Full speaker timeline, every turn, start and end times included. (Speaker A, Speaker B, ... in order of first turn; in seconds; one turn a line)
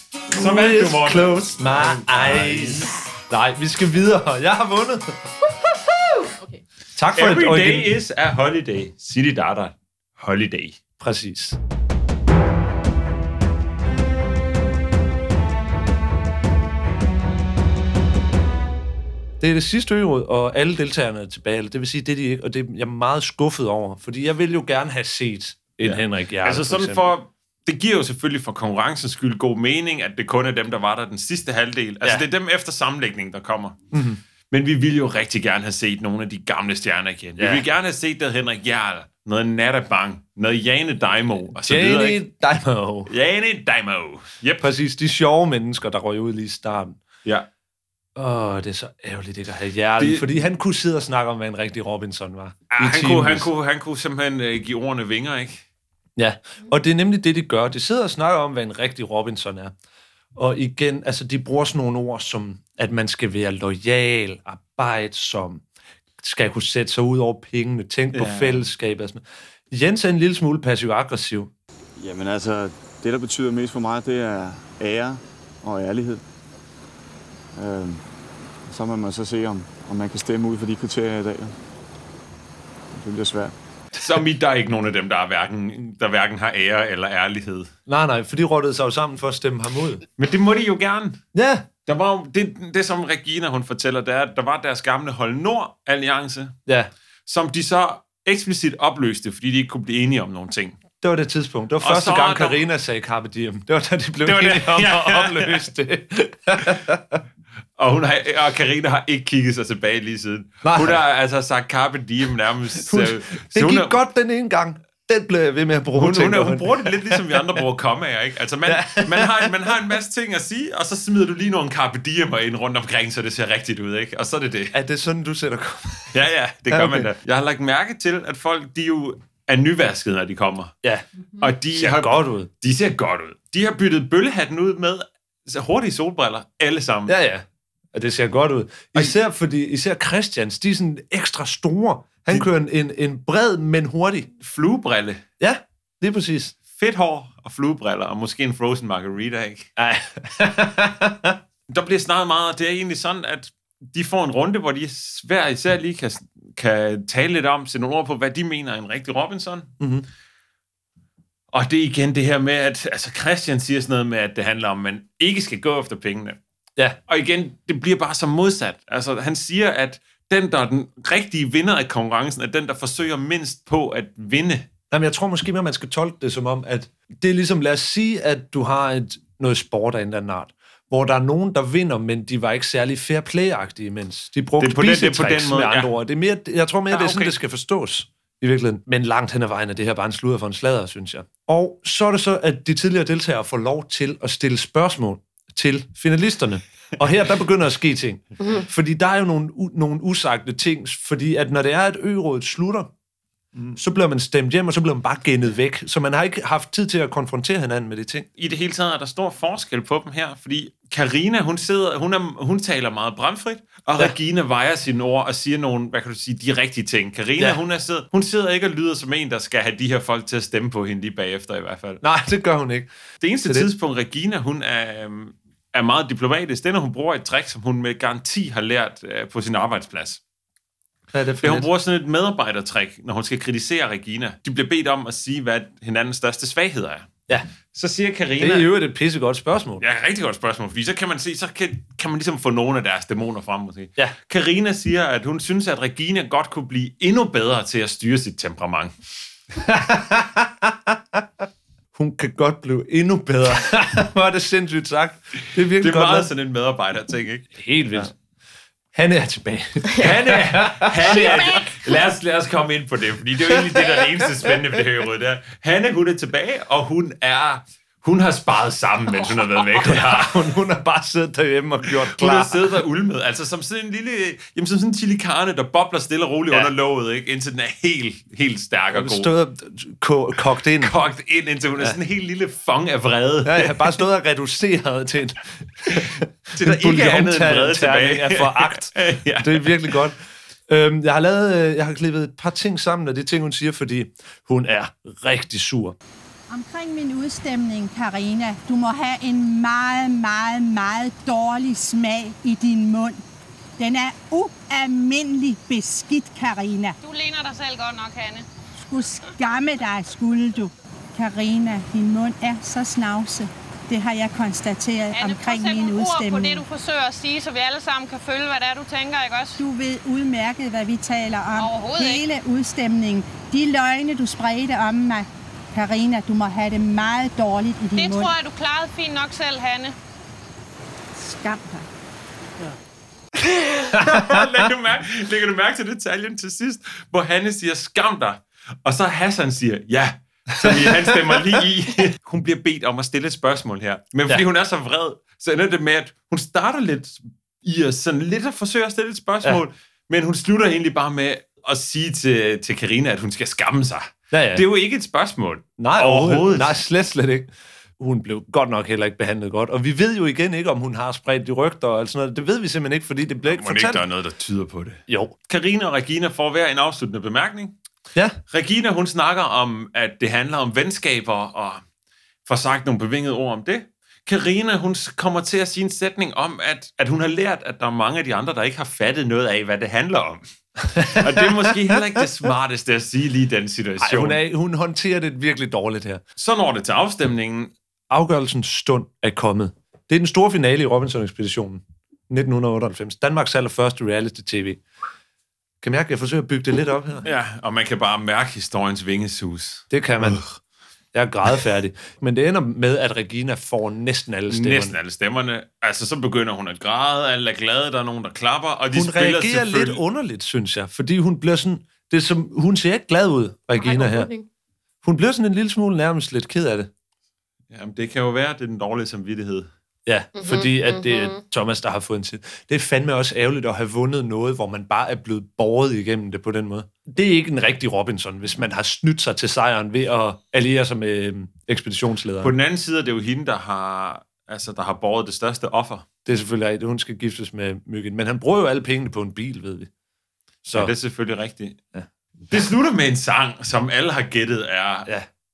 Speaker A: 0.3-2.9
Speaker B: 0.3-5.1
Speaker C: 5.4-6.6
Speaker B: 7.0-7.9
Speaker A: 7.1-10.8
Speaker B: 11.0-11.6
Speaker B: 19.4-27.1
Speaker A: 25.8-33.8
Speaker B: 33.9-34.2
Speaker A: 34.5-42.2
Speaker B: 37.4-37.6
Speaker B: 41.6-43.1
Speaker A: 43.1-44.7
Speaker B: 44.6-47.0
Speaker B: 48.2-53.5
Speaker A: 50.0-50.3
Speaker A: 52.7-55.6
Speaker B: 56.2-59.7
Speaker B: 60.4-65.6
Speaker B: 66.2-71.5
Speaker A: 68.1-68.7
Speaker D: 72.0-76.2
Speaker D: 77.6-78.0
Speaker D: 78.7-81.5
Speaker D: 83.0-83.5
Speaker A: 84.0-87.7
Speaker B: 87.9-90.0
Speaker A: 90.2-91.2
Speaker B: 91.3-91.7
Speaker A: 91.9-96.6
Speaker A: 97.3-100.8
Speaker B: 101.0-107.2
Speaker A: 101.8-102.6
Speaker A: 104.2-105.6
Speaker A: 107.8-114.0
Speaker B: 110.6-111.0
Speaker B: 112.9-117.2
Speaker A: 116.0-124.7
Speaker B: 118.7-119.5
Speaker B: 124.7-126.2
Speaker A: 126.1-130.7
Speaker B: 126.7-127.1
Speaker B: 130.8-132.5
Speaker A: 131.4-137.2
Speaker B: 137.1-144.3
Speaker A: 144.4-145.2
Speaker B: 145.4-146.6
Speaker A: 146.7-149.7
Speaker B: 149.8-151.4
Speaker A: 151.7-159.7
Speaker B: 159.8-160.1
Speaker A: 161.5-166.4
Speaker A: 167.1-174.7
Speaker B: 174.9-202.9
Speaker A: 184.6-185.9
Speaker A: 186.9-187.3
Speaker B: 203.8-208.3
Speaker A: 208.4-222.0
Speaker B: 222.0-222.9
Speaker A: 223.2-230.2
Speaker B: 231.1-231.7
Speaker A: 231.4-237.1
Speaker A: 237.7-238.7
Speaker B: 238.4-239.8
Speaker A: 239.8-248.9
Speaker B: 249.6-251.2
Speaker B: 251.9-256.3
Speaker A: 255.8-258.1
Speaker B: 257.6-258.1
Speaker B: 258.9-261.6
Speaker A: 260.0-270.4
Speaker B: 263.5-264.1
Speaker B: 269.7-272.6
Speaker A: 272.1-279.3
Speaker B: 278.9-281.0
Speaker A: 280.8-284.0
Speaker B: 283.4-290.2
Speaker A: 285.9-290.0
Speaker B: 290.7-296.0
Speaker E: 296.5-303.2
Speaker E: 303.8-307.0
Speaker F: 307.0-308.5
Speaker E: 308.8-316.6
Speaker F: 315.1-319.6
Speaker E: 319.6-328.3
Speaker F: 321.6-322.3
Speaker F: 328.0-329.9
Speaker E: 331.2-331.9
Speaker A: 333.8-356.8
Speaker B: 340.6-341.5
Speaker B: 354.3-354.6
Speaker B: 355.8-364.0
Speaker A: 363.5-367.8
Speaker B: 365.1-365.3
Speaker A: 368.5-371.8
Speaker A: 372.4-384.4
Speaker B: 381.0-382.0
Speaker B: 384.0-386.2
Speaker A: 386.4-387.7
Speaker B: 388.1-394.8
Speaker B: 395.8-397.3
Speaker A: 397.2-400.5
Speaker B: 399.9-400.4
Speaker B: 401.1-405.0
Speaker A: 404.5-410.0
Speaker B: 408.9-414.3
Speaker C: 413.8-414.5
Speaker B: 415.0-416.9
Speaker A: 417.7-419.7
Speaker B: 420.1-432.6
Speaker C: 420.4-421.4
Speaker A: 432.4-436.1
Speaker B: 436.3-439.9
Speaker B: 440.6-440.9
Speaker A: 440.7-441.8
Speaker A: 442.5-445.1